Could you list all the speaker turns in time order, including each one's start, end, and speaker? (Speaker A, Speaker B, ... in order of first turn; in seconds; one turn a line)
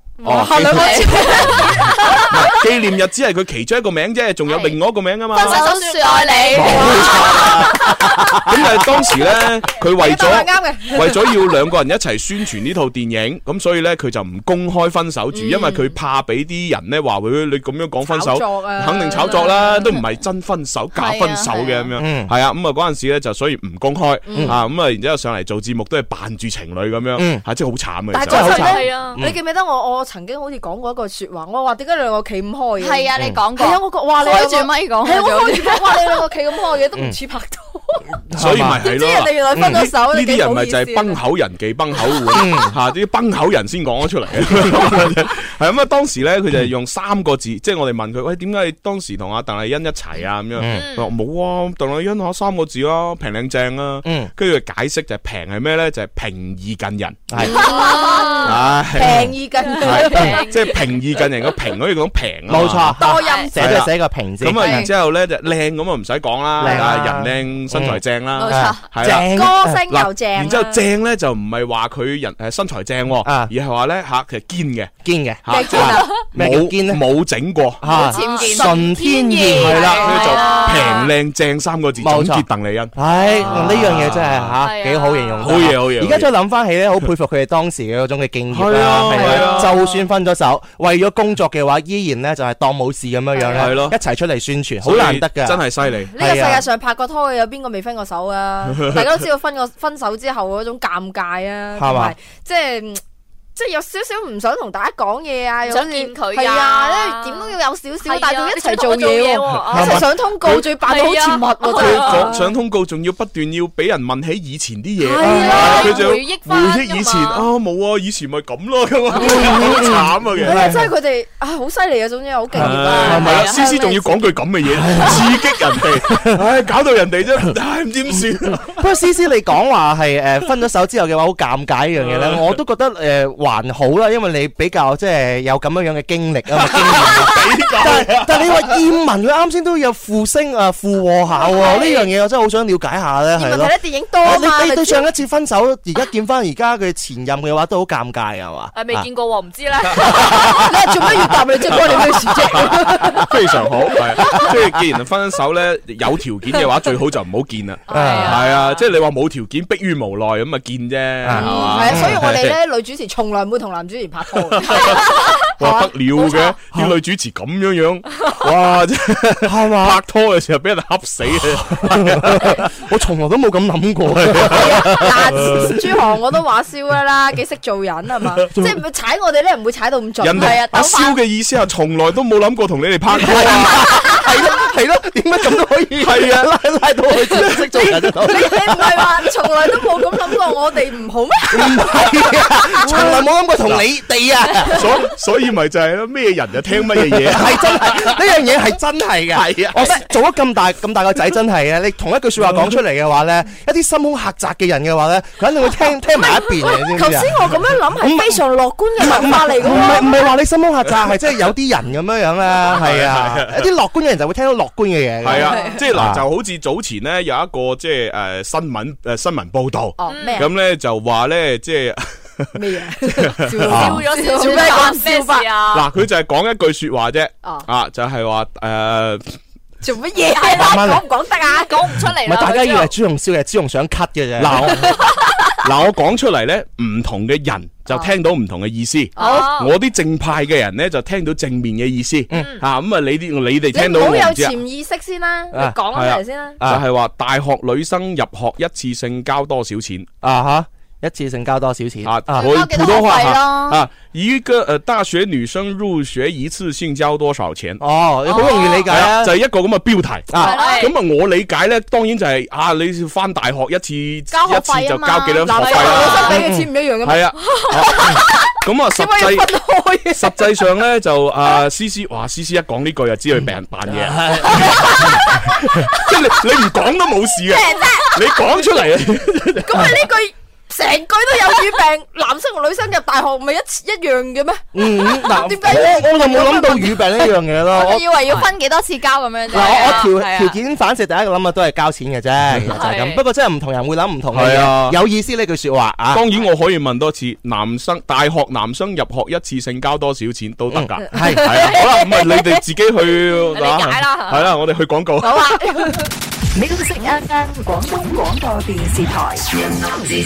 Speaker A: 0.2-2.3
Speaker B: 0.2-1.1
Speaker C: 0.6-1.6
Speaker D: 0.9-2.2
Speaker B: 2.3-5.7
Speaker C: 5.3-8.1
Speaker D: 5.3-7.4
Speaker B: 6.5-28.8
Speaker A: 6.6-7.0
Speaker A: 10.0-11.4
Speaker A: 15.3-15.9
Speaker A: 18.0-19.6
Speaker C: 19.2-19.6
Speaker C: 20.9-21.9
Speaker E: 22.0-22.3
Speaker A: 24.3-24.6
Speaker E: 24.3-24.6
Speaker E: 27.2-27.4
Speaker A: 28.1-38.1
Speaker D: 28.3-29.2
Speaker E: 28.3-29.4
Speaker C: 32.8-36.1
Speaker E: 33.2-33.4
Speaker E: 38.3-38.8
Speaker B: 38.4-57.4
Speaker A: 38.8-41.2
Speaker E: 42.3-42.7
Speaker E: 50.6-50.8
Speaker D: 50.7-51.1
Speaker E: 54.0-54.3
Speaker E: 57.3-57.6
Speaker A: 57.4-60.5
Speaker D: 57.5-58.6
Speaker B: 58.4-74.9
Speaker D: 59.9-60.8
Speaker E: 62.5-64.9
Speaker A: 63.0-63.8
Speaker D: 63.0-63.5
Speaker E: 66.6-69.8
Speaker D: 68.4-68.8
Speaker A: 69.0-70.8
Speaker E: 73.2-73.5
Speaker E: 75.0-77.0
Speaker B: 75.4-78.1
Speaker A: 75.5-76.2
Speaker E: 77.8-80.2
Speaker D: 78.1-81.1
Speaker C: 78.1-79.3
Speaker A: 78.2-78.8
Speaker A: 79.6-80.9
Speaker B: 79.8-84.6
Speaker E: 82.0-95.7
Speaker D: 84.6-85.6
Speaker B: 85.4-86.3
Speaker B: 88.5-89.8
Speaker A: 89.1-89.9
Speaker A: 93.3-93.8
Speaker B: 93.5-94.0
Speaker B: 94.8-96.1
Speaker A: 96.1-103.0
Speaker E: 96.2-96.6
Speaker B: 98.7-99.1
Speaker E: 101.8-102.2
Speaker A: 103.6-112.5
Speaker D: 105.7-112.3
Speaker E: 109.7-110.1
Speaker B: 111.7-120.7
Speaker A: 115.0-116.1
Speaker E: 115.2-115.9
Speaker D: 115.2-117.5
Speaker A: 119.2-119.8
Speaker E: 119.2-120.9
Speaker A: 120.4-124.4
Speaker E: 122.5-123.5
Speaker B: 122.6-128.8
Speaker D: 122.9-123.6
Speaker E: 124.7-125.4
Speaker E: 126.1-126.4
Speaker E: 128.7-148.8
Speaker B: 132.0-132.6
Speaker B: 136.6-138.8
Speaker A: 141.4-142.1
Speaker A: 143.4-145.1
Speaker D: 148.7-150.5
Speaker E: 150.2-150.5
Speaker A: 150.6-153.3
Speaker E: 152.5-153.2
Speaker B: 153.2-162.6
Speaker D: 157.9-158.8
Speaker E: 157.9-158.4
Speaker E: 161.2-162.2
Speaker A: 161.3-166.6
Speaker D: 161.4-161.9
Speaker B: 164.5-172.7
Speaker E: 169.4-170.0
Speaker E: 171.6-175.8
Speaker B: 174.1-175.8
Speaker A: 174.5-180.7
Speaker B: 180.2-184.2
Speaker E: 183.1-189.2
Speaker B: 186.0-186.5
Speaker A: 188.2-193.3
Speaker E: 191.5-194.9
Speaker B: 192.9-193.9
Speaker B: 194.7-198.2
Speaker E: 197.0-208.4
Speaker B: 199.3-200.0
Speaker A: 206.6-210.2
Speaker E: 209.0-216.2
Speaker B: 212.7-213.7
Speaker B: 215.2-224.0
Speaker A: 215.3-215.8
Speaker A: 220.0-220.5
Speaker D: 220.1-220.4
Speaker A: 222.6-225.5
Speaker E: 223.7-224.1
Speaker D: 223.7-225.9
Speaker B: 225.7-229.3
Speaker A: 229.8-231.8
Speaker E: 230.5-231.1
Speaker D: 231.4-232.9
Speaker E: 232.2-234.9
Speaker B: 234.4-234.9
Speaker B: 235.6-244.6
Speaker A: 239.2-239.5
Speaker D: 239.2-239.8
Speaker A: 243.7-246.6
Speaker E: 245.5-245.8
Speaker B: 245.9-250.1
Speaker E: 246.6-246.8
Speaker E: 250.2-252.5
Speaker B: 252.0-266.4
Speaker C: 252.3-253.8
Speaker E: 257.8-259.4
Speaker E: 260.3-260.6
Speaker C: 260.4-260.9
Speaker D: 260.5-260.9
Speaker C: 264.3-266.3
Speaker A: 265.4-270.5
Speaker D: 265.6-266.4
Speaker E: 266.4-266.7
Speaker B: 267.0-269.5
Speaker B: 270.1-280.0
Speaker E: 273.9-275.1
Speaker A: 274.5-275.6
Speaker A: 277.5-278.4
Speaker A: 279.6-287.1
Speaker E: 284.7-288.2
Speaker C: 287.7-290.5
Speaker E: 289.5-296.2
Speaker D: 289.5-290.1
Speaker D: 292.7-293.2
Speaker B: 294.3-295.0
Speaker B: 296.1-305.6
Speaker E: 300.7-301.8
Speaker D: 303.5-304.5
Speaker A: 305.2-306.0
Speaker F: 306.6-309.0